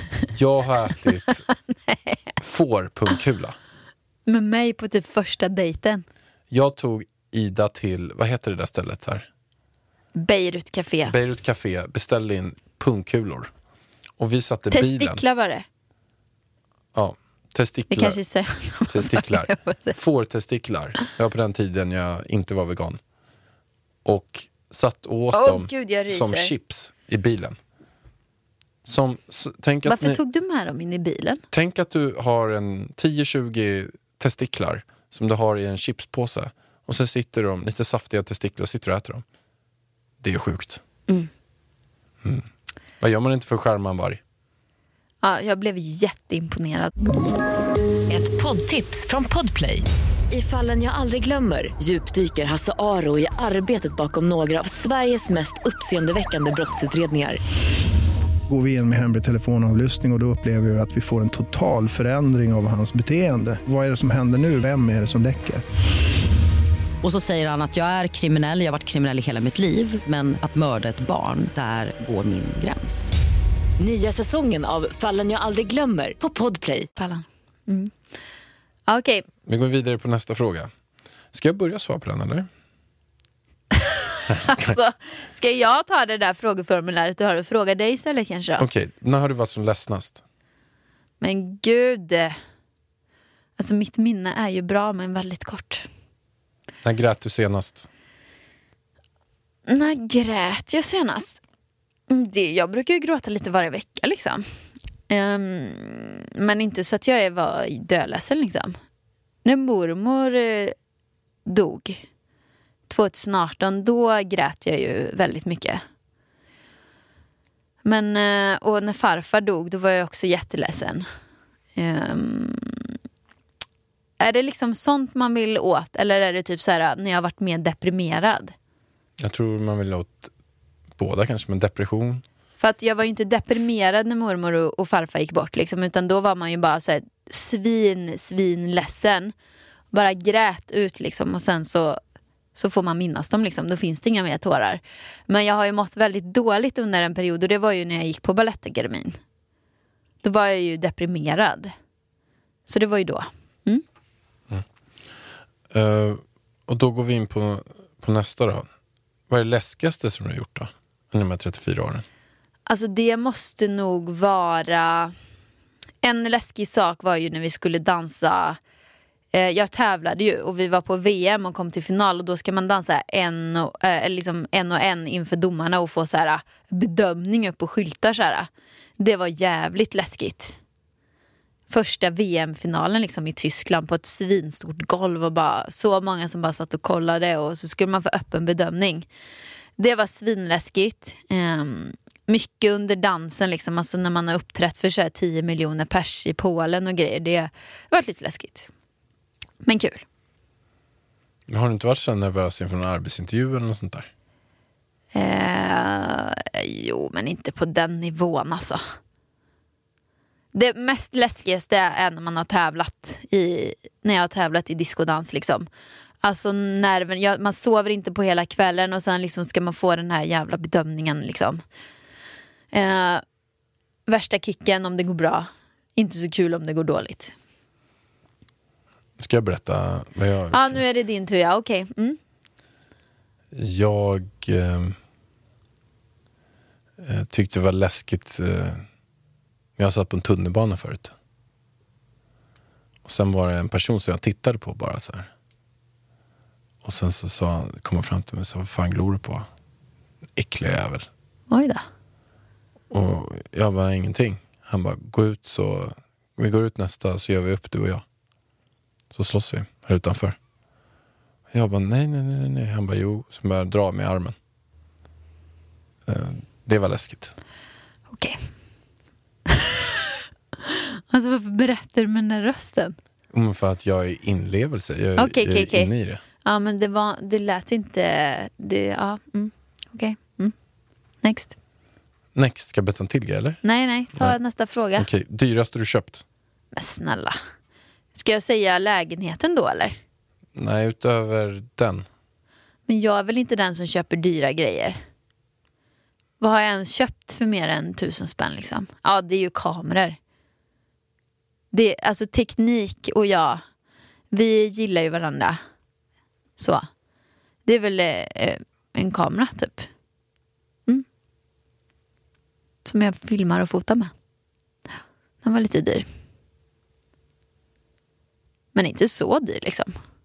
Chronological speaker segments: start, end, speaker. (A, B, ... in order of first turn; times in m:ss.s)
0:00.3-0:01.4 A
0:01.5-0:02.3 B
0:02.4-0:03.6 A
0:04.3-0:06.0 B
0:06.5-0:09.3 A
0:10.2-0:11.1 B
0:11.0-0:13.5 A
0:14.2-0:15.2 A
0:14.7-0:15.6 B
0:16.9-0:18.2 A
0:17.9-0:20.0 B
0:18.9-0:23.0 A
0:24.0-0:27.6 A
0:25.3-0:26.5 B
0:28.8-0:30.2 A
0:29.8-0:31.4 B
0:31.5-0:39.2 A
0:40.2-0:40.8 A
0:42.2-0:42.5 A
0:43.0-0:44.2 A
0:45.2-0:46.9 B
0:48.1-0:57.4 C
0:58.5-1:05.6 D
1:07.0-1:13.1 E
1:13.8-1:16.9 C
1:17.0-1:17.9 B
1:18.9-1:19.2 B
1:19.4-1:20.7 A
1:21.3-1:22.5 A
1:23.8-1:28.6 B
1:24.3-1:24.8 A
1:28.6-1:30.2 A
1:31.2-1:32.3 B
1:33.6-1:35.9 B
1:36.8-1:37.9 A
1:39.7-1:41.4 B
1:42.1-1:44.4 B
1:45.1-1:48.8 B
1:49.4-1:50.7 B
1:51.5-1:52.0 B
1:52.9-1:55.8 B
1:57.8-2:01.1 B
2:01.8-2:02.9 B
2:04.2-2:08.5 B
2:09.2-2:10.3 A
2:11.0-2:12.2 A
2:12.6-2:19.3 B
2:19.9-2:22.0 B
2:22.5-2:29.2 B
2:30.2-2:31.7 B
2:32.7-2:33.8 B
2:35.7-2:38.7 A
2:39.3-2:42.0 A
2:42.7-2:45.1 B
2:46.0-2:48.6 B
2:49.3-3:00.6 B
3:01.7-3:09.1 B
3:09.8-3:18.7 B
3:19.6-3:20.0 B
3:21.5-3:24.1 A
3:25.1-3:28.8 B
3:30.5-3:35.6 B
3:36.2-3:41.6 B
3:42.7-3:43.2 B
3:44.1-3:47.3 B
3:49.2-3:50.8 A
3:50.5-3:52.2 B
3:53.5-3:55.0 A
3:57.0-3:58.8 A
3:59.8-4:01.1 A
4:03.0-4:05.3 A
4:06.8-4:09.4 A
4:10.4-4:11.1 A
4:11.5-4:11.8 B
4:12.9-4:18.0 A
4:19.1-4:20.4 A
4:21.5-4:24.3 A
4:26.0-4:27.3 A
4:28.1-4:28.4 B
4:29.5-4:29.9 B
4:30.6-4:33.0 B
4:33.3-4:36.2 A
4:35.2-4:35.9 B
4:36.4-4:40.5 B
4:41.2-4:41.5 B
4:42.3-4:43.6 A
4:43.6-4:45.1 B
4:45.0-4:46.2 A
4:46.7-4:47.4 B
4:48.1-4:50.0 B
4:50.5-4:52.0 A
4:52.9-4:55.0 B
4:56.4-5:00.2 B
5:01.7-5:03.6 B
5:04.3-5:05.6 B
5:06.6-5:06.8 B
5:07.6-5:09.9 B
5:12.8-5:14.1 B
5:15.4-5:16.0 B
5:18.7-5:19.9 B